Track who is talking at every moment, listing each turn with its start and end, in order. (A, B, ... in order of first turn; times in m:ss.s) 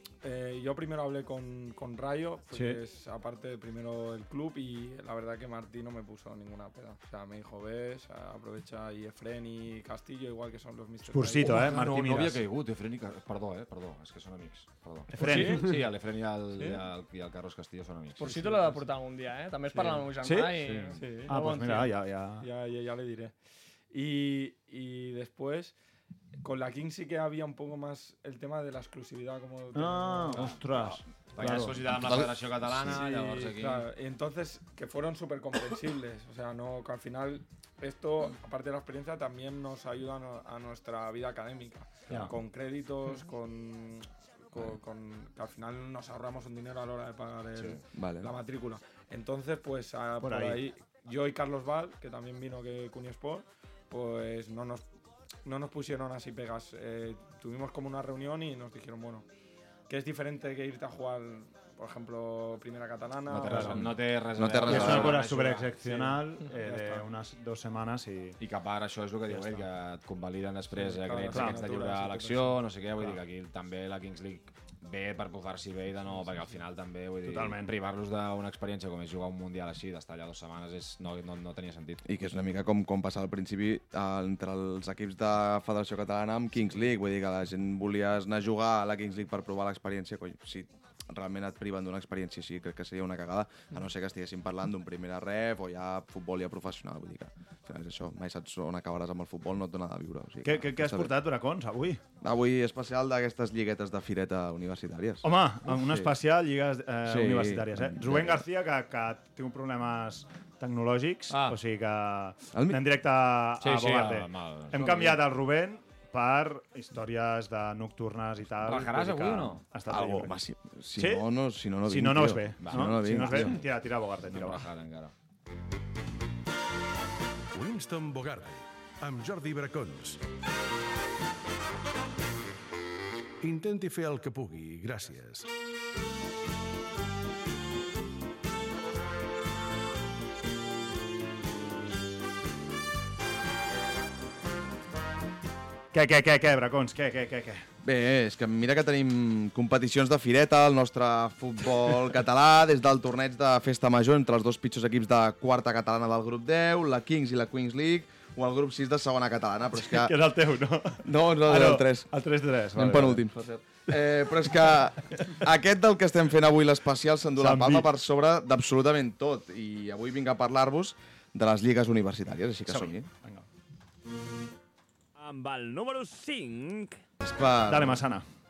0:00.2-0:11.8 A
0:02.5-0:02.8 B
0:11.1-0:12.4 B
0:11.4-0:18.2 C
0:15.1-0:15.7 B
0:15.2-0:15.7 A
0:18.2-0:21.8 D
0:18.2-0:18.8 A
0:19.7-0:20.1 A
0:20.2-0:22.5 B
0:21.0-0:21.8 A
0:22.4-0:23.3 A
0:23.9-0:25.8 A
0:26.4-0:30.6 A
0:29.7-0:32.3 B
0:30.4-0:33.9 C
0:32.8-0:54.8 A
0:47.9-0:48.3 E
0:50.2-0:50.6 B
0:55.4-0:59.2 A
0:59.9-1:03.9 A
1:03.3-1:05.7 C
1:03.4-1:04.0 B
1:04.4-1:05.2 E
1:04.6-1:08.4 B
1:05.8-1:07.1 A
1:08.4-1:22.1 C
1:09.3-1:09.6 A
1:10.7-1:12.6 A
1:11.3-1:11.6 B
1:17.2-1:17.7 B
1:22.0-1:41.1 E
1:40.4-1:42.0 B
1:42.2-1:46.1 E
1:45.2-2:00.4 B
1:47.0-1:48.4 E
1:51.3-1:51.6 C
1:52.5-1:52.8 E
1:53.6-1:55.2 C
1:58.6-1:59.6 C
1:59.9-2:03.6 E
2:00.9-2:01.2 B
2:01.8-2:04.6 B
2:02.6-2:03.6 C
2:04.3-2:05.1 C
2:07.5-2:10.2 F
2:13.4-2:15.5 F
2:25.9-2:27.6 B
2:27.8-2:40.1 E
2:39.8-2:43.3 B
2:41.0-2:42.1 E
2:42.7-2:53.1 E
2:47.4-2:47.9 B
2:52.7-2:53.5 B
2:57.2-2:58.0 E
2:57.6-2:58.2 B